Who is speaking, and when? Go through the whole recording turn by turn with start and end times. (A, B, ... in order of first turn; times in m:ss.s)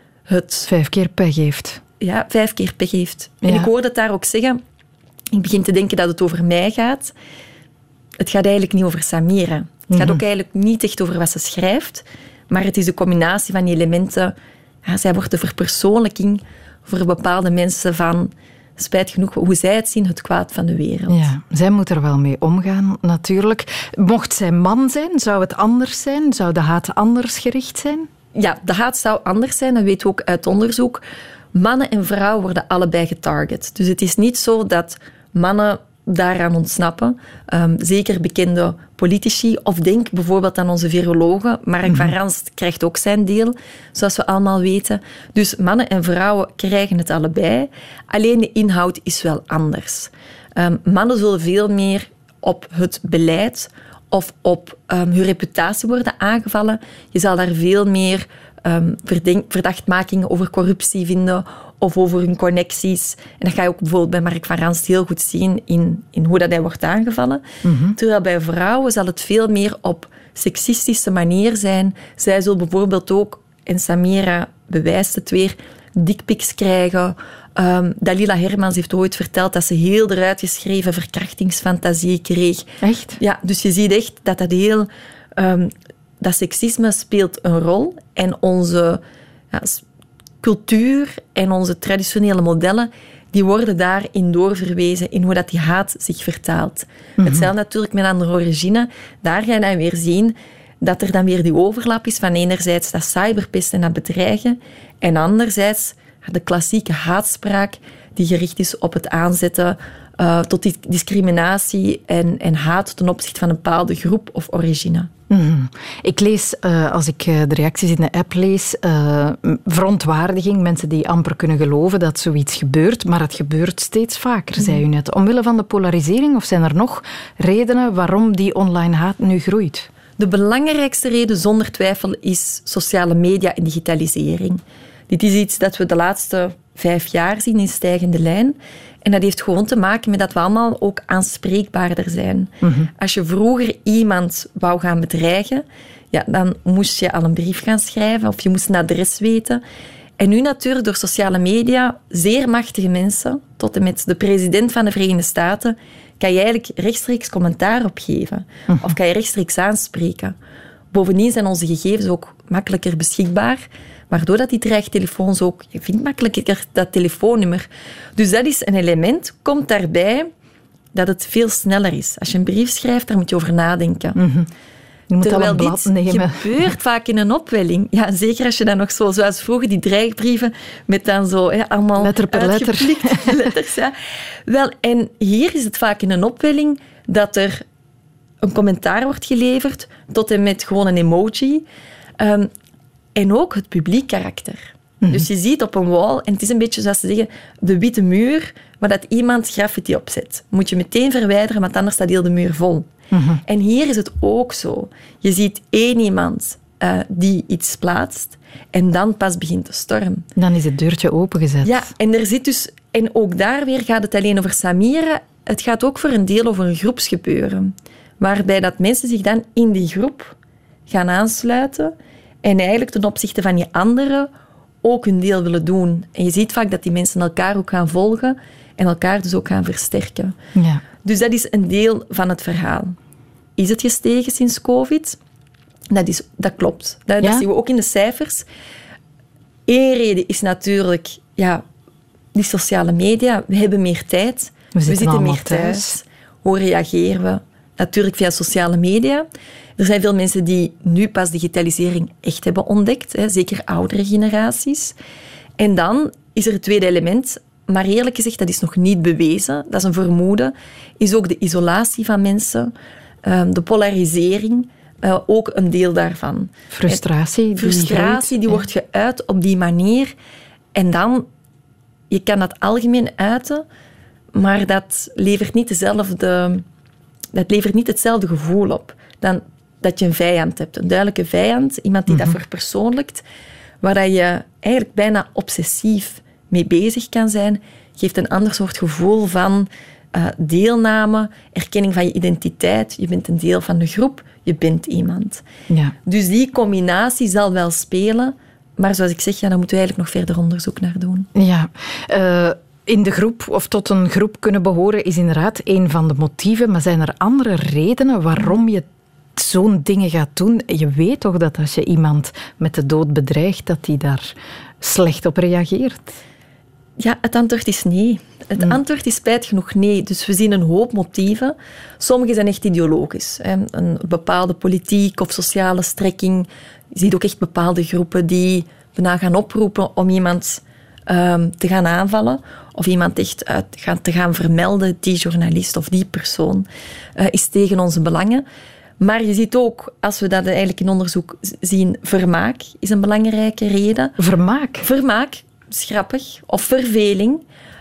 0:00.3-0:00.7 A
0:00.7-0:01.8 B
0:02.0-0:04.6 A
0:03.4-0:03.7 B
0:05.3-0:07.1 A
0:08.2-0:21.3 A
0:09.9-0:10.2 B
0:21.1-0:28.1 B
0:28.3-0:31.0 A
0:31.5-1:07.4 A
0:41.9-0:42.1 B
1:07.6-1:08.0 B
1:07.9-1:29.8 A
1:22.8-1:23.2 B
1:30.4-1:55.1 A
1:37.2-1:37.5 B
1:55.3-2:09.9 B
2:10.2-2:29.6 A
2:22.6-2:22.9 B
2:30.2-2:40.4 A
2:40.9-2:50.3 A
2:50.9-2:54.2 A
2:54.2-2:54.5 B
2:55.1-2:56.7 B
2:55.2-3:03.9 A
3:02.0-3:03.5 B
3:04.4-3:07.6 A
3:08.4-3:11.6 A
3:12.2-3:12.5 A
3:13.1-3:22.9 A
3:23.1-3:23.4 B
3:23.4-3:30.3 A
3:30.4-3:31.8 B
3:31.6-3:40.3 A
3:40.9-3:44.3 A
3:44.8-3:50.4 A
3:50.6-3:50.8 B
3:51.0-3:53.0 A
3:53.6-3:55.2 A
3:55.9-3:58.4 A
3:59.7-4:01.6 A
4:02.3-4:15.0 A
4:04.7-4:06.0 B
4:15.6-4:22.7 A
4:23.2-4:27.0 A
4:26.7-4:28.6 B
4:27.6-4:30.1 A
4:30.7-4:31.3 A
4:32.1-4:33.6 A
4:34.3-4:36.6 A
4:37.3-4:43.2 A
4:42.1-4:42.3 B
4:43.8-4:55.4 A
4:55.7-4:55.9 B
4:56.0-5:01.3 A
5:01.3-5:16.2 B
5:17.0-5:38.4 A
5:39.0-5:44.2 A
5:44.2-5:44.8 B
5:44.8-5:47.4 A